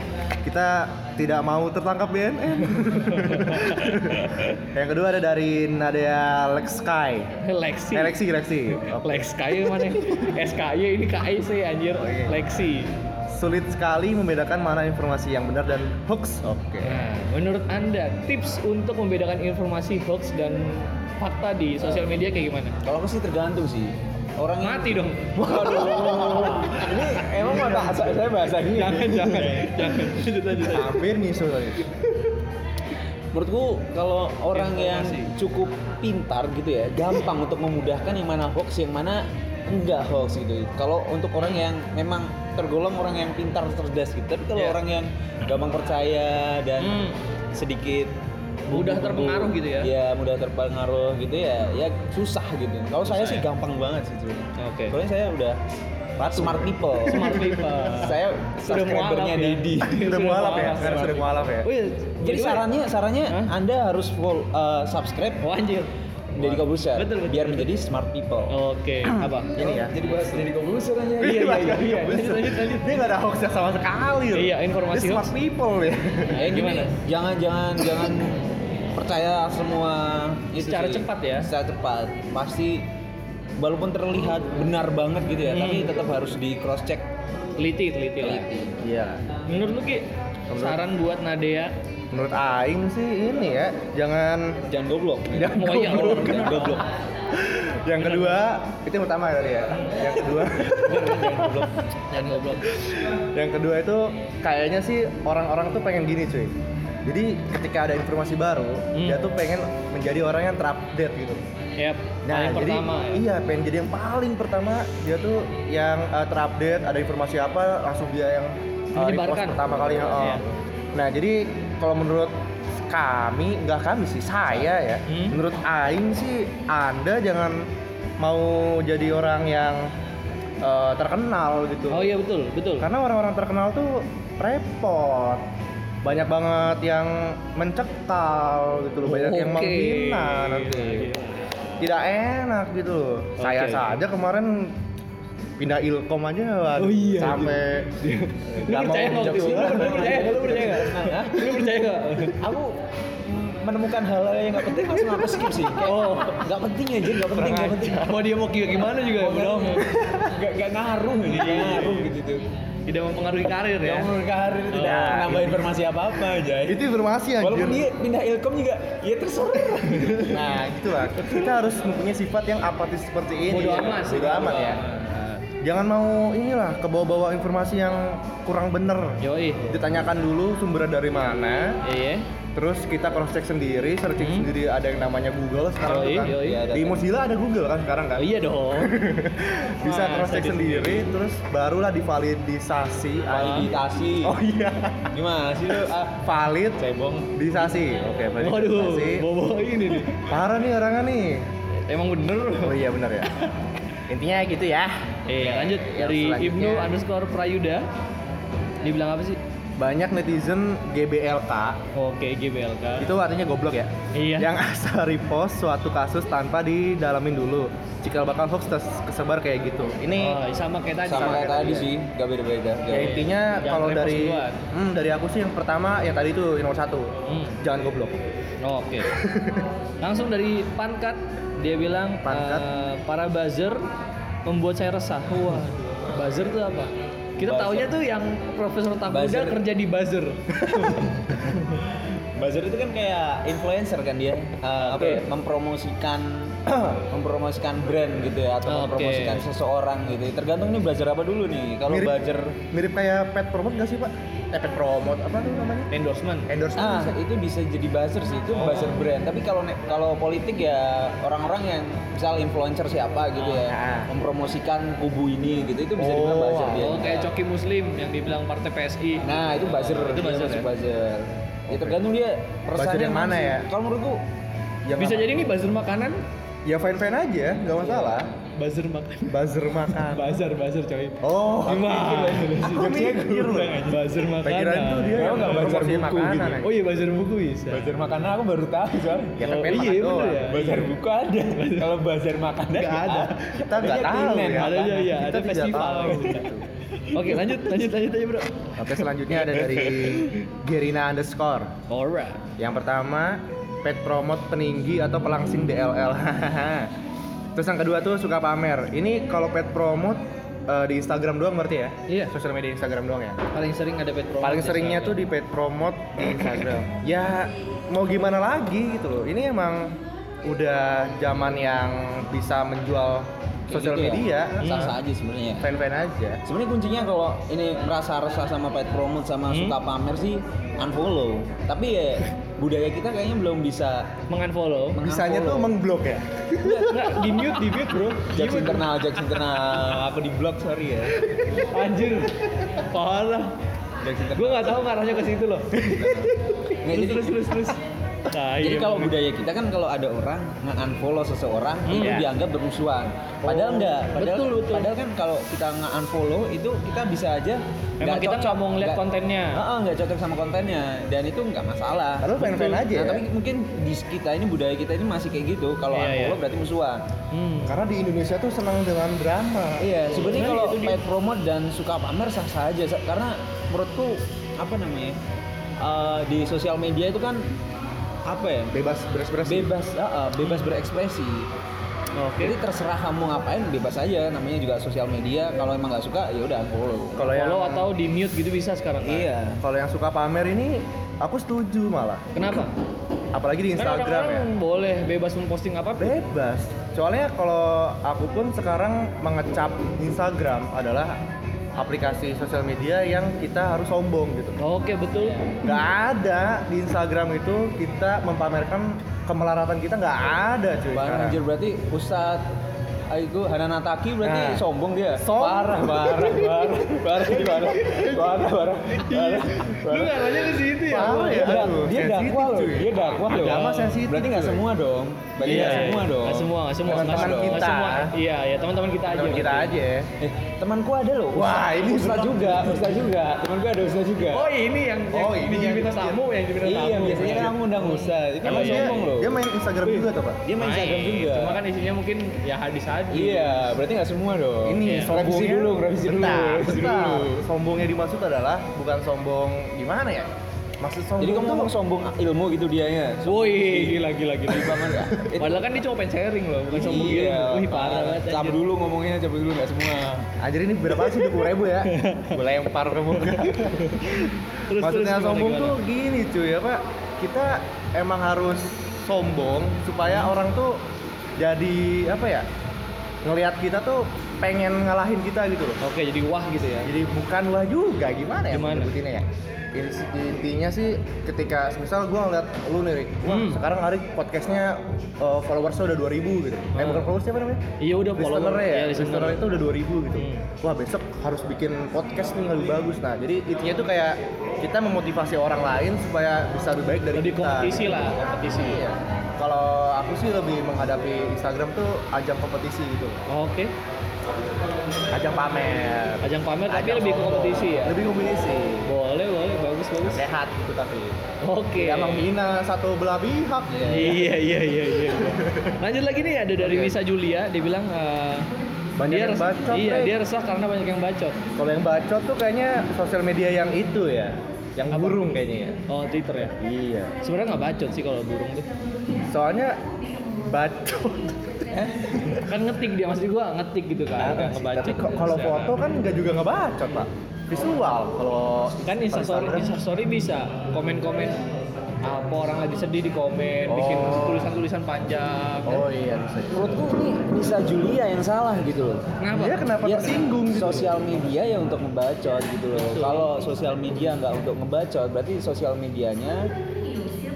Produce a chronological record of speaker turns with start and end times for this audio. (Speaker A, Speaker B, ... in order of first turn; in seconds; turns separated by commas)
Speaker A: 0.4-7.3, Speaker B: 2.7-4.6, Speaker B: 7.4-8.2, Speaker A: 7.9-10.1, Speaker B: 8.8-12.9, Speaker A: 12.0-12.4, Speaker A: 13.3-17.1, Speaker B: 16.8-22.8, Speaker C: 22.8-30.3, Speaker B: 24.6-27.9, Speaker A: 25.4-26.9, Speaker A: 27.4-28.0, Speaker B: 28.7-31.0, Speaker A: 30.7-31.9, Speaker C: 33.3-47.0, Speaker B: 34.5-35.3, Speaker B: 46.8-47.2, Speaker C: 47.5-48.1, Speaker C: 48.7-55.6, Speaker B: 48.7-49.9, Speaker B: 53.0-53.5, Speaker B: 54.6-55.0, Speaker A: 56.2-57.8, Speaker C: 56.3-60.0, Speaker B: 57.0-62.7, Speaker A: 59.9-61.7, Speaker C: 60.8-61.1, Speaker C: 62.2-65.4, Speaker B: 65.4-67.7, Speaker C: 66.4-68.5, Speaker B: 68.5-70.4, Speaker A: 69.6-69.9, Speaker C: 69.6-72.0, Speaker A: 71.2-76.4, Speaker B: 71.2-73.0, Speaker B: 74.3-75.3, Speaker B: 76.3-77.0, Speaker C: 76.3-82.8, Speaker B: 80.6-81.5, Speaker C: 83.6-87.1, Speaker B: 85.5-85.9, Speaker B: 87.6-88.5, Speaker C: 88.2-88.8, Speaker A: 88.8-89.2, Speaker B: 89.5-91.7, Speaker A: 90.5-90.8, Speaker A: 92.1-94.6, Speaker C: 94.7-96.8, Speaker A: 95.3-101.7, Speaker B: 95.5-96.8, Speaker B: 98.0-98.4, Speaker C: 100.7-101.9, Speaker B: 102.1-102.7, Speaker A: 102.7-106.5, Speaker A: 107.0-111.4, Speaker B: 108.9-109.2, Speaker B: 111.8-113.2, Speaker A: 112.3-122.3, Speaker B: 119.0-120.4, Speaker A: 122.9-127.7, Speaker B: 125.1-125.4, Speaker A: 128.2-129.9, Speaker A: 130.6-132.1, Speaker B: 131.9-132.9, Speaker A: 132.8-135.4, Speaker A: 136.0-141.1, Speaker B: 139.0-141.8, Speaker A: 141.8-144.8, Speaker B: 143.4-144.0, Speaker A: 145.6-147.9, Speaker B: 146.8-152.4, Speaker A: 148.5-150.6, Speaker C: 149.1-158.1, Speaker B: 155.8-156.5, Speaker A: 157.2-158.3, Speaker B: 158.0-159.9, Speaker C: 158.9-162.5, Speaker A: 159.9-160.3, Speaker B: 161.3-162.1, Speaker B: 162.9-164.1, Speaker C: 163.8-166.8, Speaker B: 164.7-165.3, Speaker A: 164.7-165.7, Speaker A: 166.7-167.9, Speaker C: 167.4-170.6, Speaker A: 170.2-174.8, Speaker B: 173.5-175.4, Speaker A: 175.6-181.8, Speaker B: 179.2-179.7, Speaker B: 181.8-182.3, Speaker A: 182.6-193.7, Speaker B: 184.2-184.5, Speaker B: 185.8-186.7, Speaker C: 186.3-187.1, Speaker B: 188.2-189.0, Speaker B: 189.8-191.1, Speaker C: 193.3-194.4, Speaker B: 193.4-193.7, Speaker A: 194.2-195.1, Speaker C: 195.1-196.2, Speaker A: 196.2-196.8, Speaker C: 196.8-197.3, Speaker A: 197.3-199.3, Speaker B: 198.4-200.2, Speaker A: 200.1-201.5, Speaker B: 201.9-202.8, Speaker A: 202.6-203.3, Speaker A: 204.1-206.9, Speaker B: 205.3-207.8, Speaker B: 208.8-209.4, Speaker A: 209.8-211.8, Speaker B: 211.9-213.1, Speaker A: 213.0-220.4, Speaker B: 214.1-214.5, Speaker B: 220.2-221.8, Speaker C: 221.1-223.3, Speaker A: 221.1-221.9, Speaker A: 222.9-228.2, Speaker B: 222.9-224.6, Speaker B: 227.3-227.6, Speaker B: 228.6-229.1, Speaker A: 229.0-229.7, Speaker B: 230.0-233.8, Speaker A: 232.2-232.7, Speaker B: 234.5-241.8, Speaker C: 237.4-238.0, Speaker C: 239.1-239.6, Speaker C: 241.9-252.6, Speaker B: 244.8-245.2, Speaker A: 246.7-247.0, Speaker B: 248.7-249.4, Speaker A: 251.9-252.2, Speaker A: 252.7-255.9, Speaker B: 255.9-256.5, Speaker A: 256.5-257.2, Speaker C: 256.8-267.3, Speaker B: 258.5-259.0, Speaker A: 263.5-264.1, Speaker A: 266.0-266.9, Speaker B: 266.8-270.7, Speaker C: 269.2-274.2, Speaker A: 271.7-272.0, Speaker A: 272.8-273.7, Speaker A: 274.9-275.3, Speaker B: 275.0-276.2, Speaker A: 276.7-278.3, Speaker C: 277.9-278.3, Speaker B: 278.6-283.2, Speaker A: 279.3-280.4, Speaker A: 281.2-282.0, Speaker C: 281.7-284.0, Speaker A: 282.6-283.8, Speaker B: 283.7-285.7, Speaker A: 284.4-286.7, Speaker C: 285.2-286.6, Speaker B: 286.6-287.9, Speaker C: 287.7-289.9, Speaker A: 289.4-290.5, Speaker B: 289.4-290.9, Speaker C: 290.5-295.1, Speaker B: 291.5-291.9, Speaker B: 292.8-293.3, Speaker A: 293.5-296.6, Speaker B: 294.0-296.5, Speaker C: 297.1-297.6, Speaker B: 297.1-298.7, Speaker A: 298.8-301.7, Speaker C: 299.5-300.2, Speaker B: 299.5-299.8, Speaker B: 301.9-302.4, Speaker A: 302.6-306.9, Speaker A: 307.6-313.4, Speaker B: 312.1-312.3, Speaker B: 313.5-315.2, Speaker A: 314.4-324.8, Speaker C: 323.7-325.7, Speaker B: 324.6-324.9, Speaker A: 325.6-326.4, Speaker C: 326.4-334.1, Speaker B: 329.5-329.8, Speaker B: 334.3-335.0, Speaker C: 334.9-335.7, Speaker A: 335.0-337.1, Speaker C: 336.6-341.2, Speaker B: 336.6-339.6, Speaker B: 341.6-343.5, Speaker C: 344.0-344.9, Speaker B: 344.4-346.1, Speaker C: 345.7-347.7, Speaker B: 346.8-349.1, Speaker C: 348.6-359.0, Speaker B: 351.9-352.2, Speaker A: 351.9-352.3, Speaker A: 353.4-354.1, Speaker B: 354.1-354.9, Speaker B: 358.0-359.6, Speaker C: 359.5-367.0, Speaker A: 362.2-363.3, Speaker B: 365.9-366.4, Speaker B: 367.3-367.8, Speaker A: 367.7-370.5, Speaker C: 369.8-375.2, Speaker B: 370.1-371.0, Speaker C: 375.8-377.5, Speaker C: 378.3-378.7, Speaker A: 378.7-379.7, Speaker C: 379.4-381.5, Speaker B: 380.4-380.7, Speaker B: 382.2-382.6, Speaker C: 382.4-387.3, Speaker A: 387.2-387.9, Speaker B: 387.3-389.3, Speaker C: 389.0-389.6, Speaker A: 389.6-392.2, Speaker B: 392.4-392.7, Speaker A: 393.3-394.5, Speaker B: 393.8-396.2, Speaker A: 396.0-401.2, Speaker A: 401.8-404.6, Speaker B: 404.6-405.7, Speaker A: 405.6-411.4, Speaker C: 410.9-412.5, Speaker C: 413.1-420.6, Speaker A: 414.2-414.6, Speaker A: 415.2-418.4, Speaker B: 418.9-421.8, Speaker A: 420.9-424.6, Speaker C: 421.3-427.6, Speaker B: 423.3-424.0, Speaker A: 425.4-426.0, Speaker B: 425.4-429.8, Speaker A: 426.9-428.1, Speaker A: 429.1-430.1, Speaker C: 430.2-434.5, Speaker A: 431.3-433.0, Speaker B: 434.3-439.2, Speaker A: 435.1-436.2, Speaker C: 436.6-439.4, Speaker A: 437.2-437.5, Speaker A: 438.4-440.4, Speaker C: 440.4-441.6, Speaker B: 440.6-443.7, Speaker C: 443.1-447.5, Speaker A: 444.6-450.3, Speaker B: 444.8-445.1, Speaker A: 450.8-451.7, Speaker C: 451.2-455.7, Speaker B: 453.3-458.6, Speaker C: 456.7-460.3, Speaker A: 460.4-470.9, Speaker B: 461.9-462.4, Speaker B: 463.1-465.8, Speaker A: 471.4-472.5, Speaker A: 473.2-475.8, Speaker B: 475.8-476.9, Speaker A: 476.8-487.6, Speaker B: 478.5-478.9, Speaker B: 483.2-483.6, Speaker B: 486.7-487.1, Speaker B: 487.8-489.5, Speaker A: 488.2-503.3, Speaker B: 490.2-490.5, Speaker B: 497.1-498.8, Speaker B: 503.3-503.7, Speaker A: 505.1-508.9, Speaker B: 506.2-508.0, Speaker B: 508.9-510.3, Speaker A: 510.0-511.2, Speaker B: 511.4-512.3, Speaker A: 511.8-514.3, Speaker C: 513.7-514.2, Speaker B: 513.9-518.5, Speaker A: 515.1-515.8, Speaker A: 516.6-516.9, Speaker A: 519.0-520.1, Speaker B: 519.1-521.4, Speaker A: 521.6-525.8, Speaker B: 524.9-525.3, Speaker B: 525.9-526.5, Speaker A: 526.6-527.1, Speaker B: 527.2-528.7, Speaker A: 529.2-529.8, Speaker A: 530.4-532.5, Speaker B: 532.3-535.8, Speaker A: 534.2-539.8, Speaker B: 538.9-541.4, Speaker B: 542.0-545.9, Speaker A: 543.7-544.6, Speaker A: 545.7-546.9, Speaker C: 546.5-549.0, Speaker B: 549.2-550.3, Speaker A: 549.3-551.2, Speaker C: 549.8-556.5, Speaker B: 552.7-553.3